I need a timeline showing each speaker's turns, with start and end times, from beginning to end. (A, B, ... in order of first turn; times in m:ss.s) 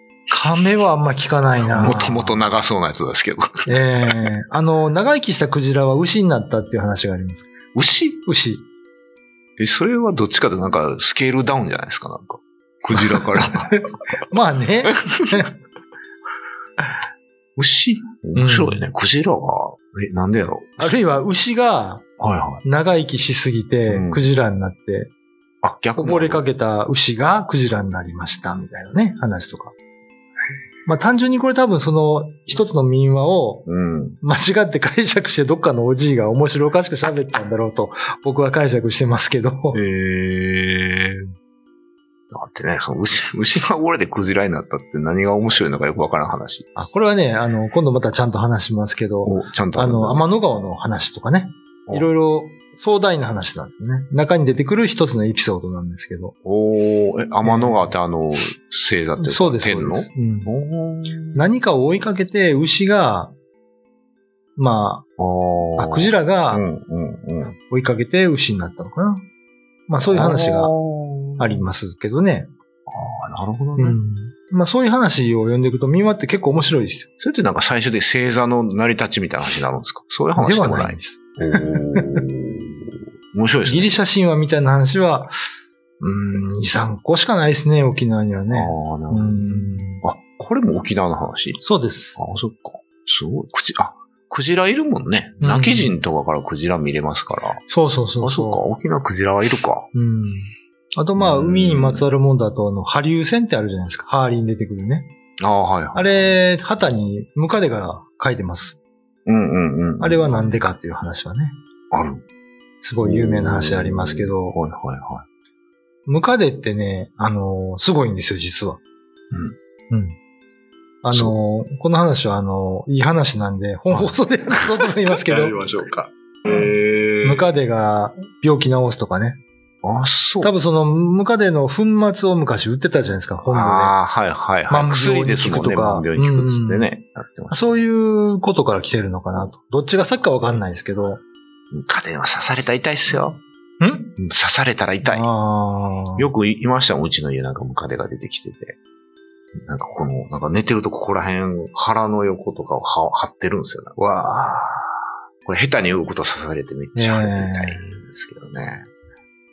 0:00.3-0:02.5 A
0:01.6-0:04.3 B
0:03.6-0:07.5 A
0:07.7-0:08.2 B
0:08.2-0:08.6 A
0:09.6-0:13.8 B
0:13.0-0:15.5 A
0:17.6-0:21.0 B
0:18.3-0:18.8 A
0:20.8-0:22.0 A
0:22.2-0:22.6 B
0:22.6-0:25.1 A
0:23.9-0:24.2 B
0:25.6-0:26.4 B
0:26.0-0:29.7 A
0:30.8-0:33.7 A
0:33.6-0:34.2 B
0:34.2-0:39.8 A
0:39.7-0:41.3 B
0:42.3-0:46.8 B
0:46.8-0:56.3 A
0:49.2-0:50.2 B
0:56.4-1:01.5 B
0:57.4-0:58.0 A
0:59.2-1:00.5 A
1:01.3-1:03.3 A
1:04.6-1:05.1 A
1:05.2-1:07.5 B
1:05.8-1:06.6 A
1:07.5-1:09.2 A
1:09.9-1:10.7 A
1:10.0-1:11.6 B
1:11.4-1:12.5 A
1:12.9-1:14.0 B
1:13.8-1:17.1 A
1:17.2-1:23.9 B
1:20.3-1:22.2 A
1:23.6-1:25.4 A
1:26.0-1:30.0 A
1:28.5-1:31.6 B
1:31.6-1:32.2 A
1:32.2-1:37.6 B
1:35.4-1:36.0 A
1:37.6-1:38.6 A
1:38.2-1:39.9 B
1:39.9-1:45.1 A
1:41.2-1:42.0 B
1:45.4-1:46.4 B
1:45.9-1:48.8 A
1:49.2-1:50.6 B
1:50.0-1:51.6 A
1:51.9-1:52.2 B
1:52.8-1:54.6 A
1:53.0-1:55.2 B
1:56.0-1:58.8 A
1:59.9-2:00.2 A
2:01.0-2:05.6 A
2:03.9-2:07.6 B
2:07.2-2:09.4 A
2:09.8-2:10.5 B
2:10.4-2:14.0 A
2:13.5-2:17.8 B
2:14.7-2:16.9 A
2:17.5-2:21.2 A
2:21.7-2:23.4 B
2:23.8-2:24.2 A
2:24.2-2:25.3 B
2:25.0-2:26.3 A
2:26.2-2:28.8 B
2:29.6-2:34.0 B
2:34.0-2:34.9 A
2:35.4-2:38.9 B
2:36.9-2:37.8 A